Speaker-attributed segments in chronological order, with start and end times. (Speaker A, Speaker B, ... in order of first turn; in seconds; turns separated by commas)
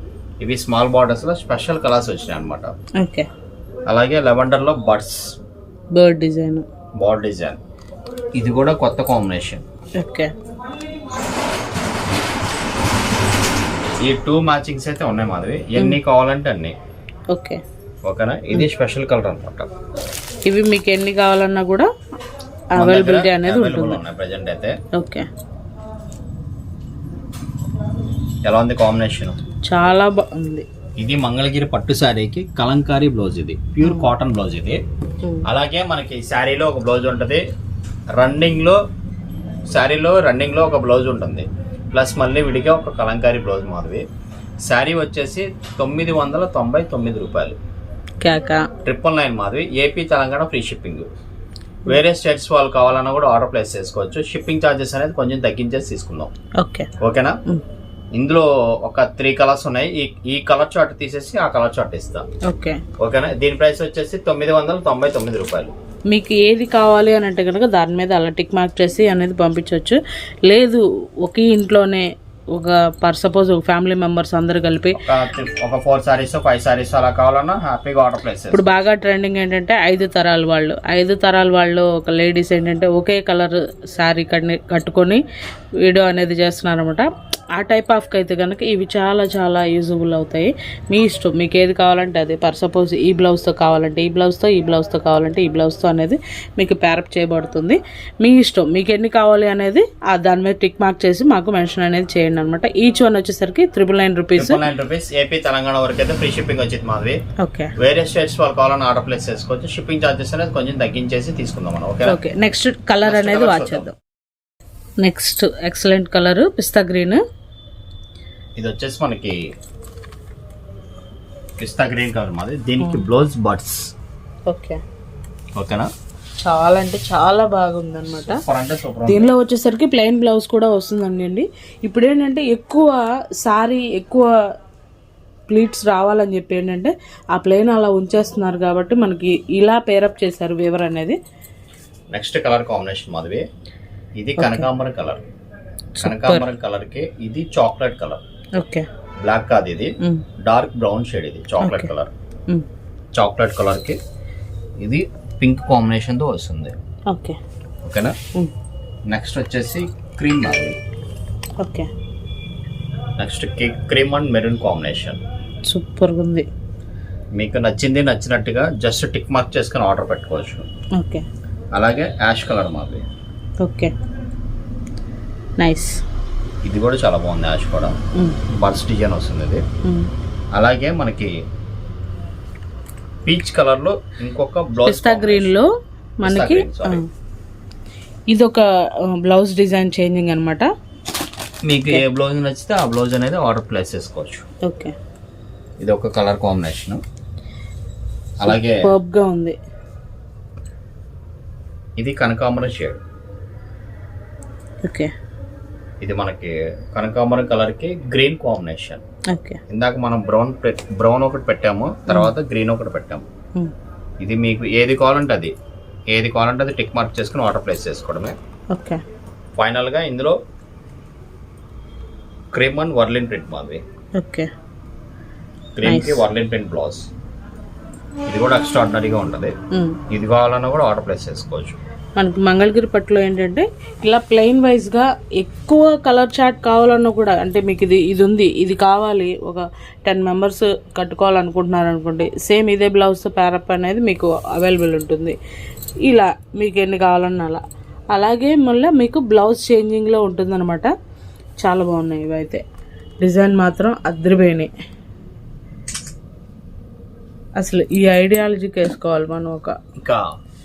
Speaker A: 0.4-2.7, Speaker B: 3.0-3.3, Speaker A: 3.9-5.3, Speaker B: 5.9-6.7, Speaker A: 7.0-7.6, Speaker A: 8.3-9.6, Speaker B: 10.0-10.3, Speaker A: 14.0-16.8, Speaker B: 17.3-17.6, Speaker A: 18.1-19.7, Speaker B: 20.4-21.9, Speaker B: 22.7-24.0, Speaker A: 22.8-24.8, Speaker B: 24.9-25.3, Speaker A: 28.4-29.4, Speaker B: 29.6-30.7, Speaker A: 31.0-34.8, Speaker B: 33.8-34.1, Speaker A: 35.4-37.4, Speaker A: 38.2-38.8, Speaker A: 39.7-44.0, Speaker A: 44.6-47.6, Speaker B: 48.2-48.7, Speaker A: 48.8-51.1, Speaker A: 51.9-56.3, Speaker B: 56.6-56.9, Speaker A: 57.0-57.4, Speaker A: 58.1-62.2, Speaker B: 62.4-62.8, Speaker A: 63.0-65.7, Speaker B: 66.1-75.0, Speaker A: 75.0-78.7, Speaker B: 78.5-85.2, Speaker B: 85.8-104.6, Speaker A: 104.3-107.2, Speaker B: 107.4-107.7, Speaker A: 107.8-112.2, Speaker B: 112.0-113.9, Speaker A: 113.0-113.9, Speaker B: 115.0-117.2, Speaker A: 118.5-119.4, Speaker A: 121.6-123.9, Speaker B: 124.5-124.8, Speaker A: 125.5-125.9, Speaker B: 126.4-128.4, Speaker A: 128.2-129.3, Speaker B: 129.1-134.3, Speaker B: 135.5-141.2, Speaker A: 142.1-143.4, Speaker A: 144.2-145.2, Speaker B: 144.4-144.7, Speaker B: 145.9-146.5, Speaker A: 146.0-148.2, Speaker B: 148.6-148.9, Speaker A: 149.2-152.1, Speaker B: 150.0-150.2, Speaker B: 151.6-151.9, Speaker A: 153.1-154.0, Speaker A: 154.8-156.7, Speaker B: 157.1-157.4, Speaker A: 157.8-158.2, Speaker A: 159.1-160.8, Speaker B: 161.6-161.9, Speaker A: 163.2-165.2, Speaker B: 165.7-166.5, Speaker A: 167.3-170.7, Speaker B: 170.9-171.2, Speaker A: 171.7-173.1, Speaker B: 173.6-173.9, Speaker B: 175.6-176.0, Speaker A: 176.6-177.9, Speaker A: 178.5-179.6, Speaker B: 179.8-180.1, Speaker A: 180.5-181.3, Speaker A: 183.2-185.5, Speaker B: 184.8-185.7, Speaker B: 186.2-187.1, Speaker A: 186.2-187.0, Speaker B: 188.3-190.7, Speaker A: 191.6-194.4, Speaker B: 194.6-194.9, Speaker A: 195.8-197.0, Speaker A: 198.4-198.9, Speaker B: 198.4-199.6, Speaker A: 202.0-203.0, Speaker B: 204.8-205.1, Speaker A: 206.0-209.0, Speaker B: 209.3-209.6, Speaker A: 209.7-213.2, Speaker B: 212.1-212.3, Speaker A: 214.2-215.5, Speaker A: 216.1-218.3, Speaker B: 218.7-219.0, Speaker A: 219.6-220.4, Speaker A: 222.5-223.8, Speaker B: 224.2-224.5, Speaker A: 225.7-227.1, Speaker B: 225.8-226.2, Speaker A: 228.3-229.5, Speaker B: 229.7-230.0, Speaker A: 230.1-231.8, Speaker B: 232.2-245.4, Speaker B: 246.0-250.9, Speaker B: 251.6-252.6, Speaker B: 253.2-254.7, Speaker B: 257.6-259.8, Speaker A: 260.0-260.3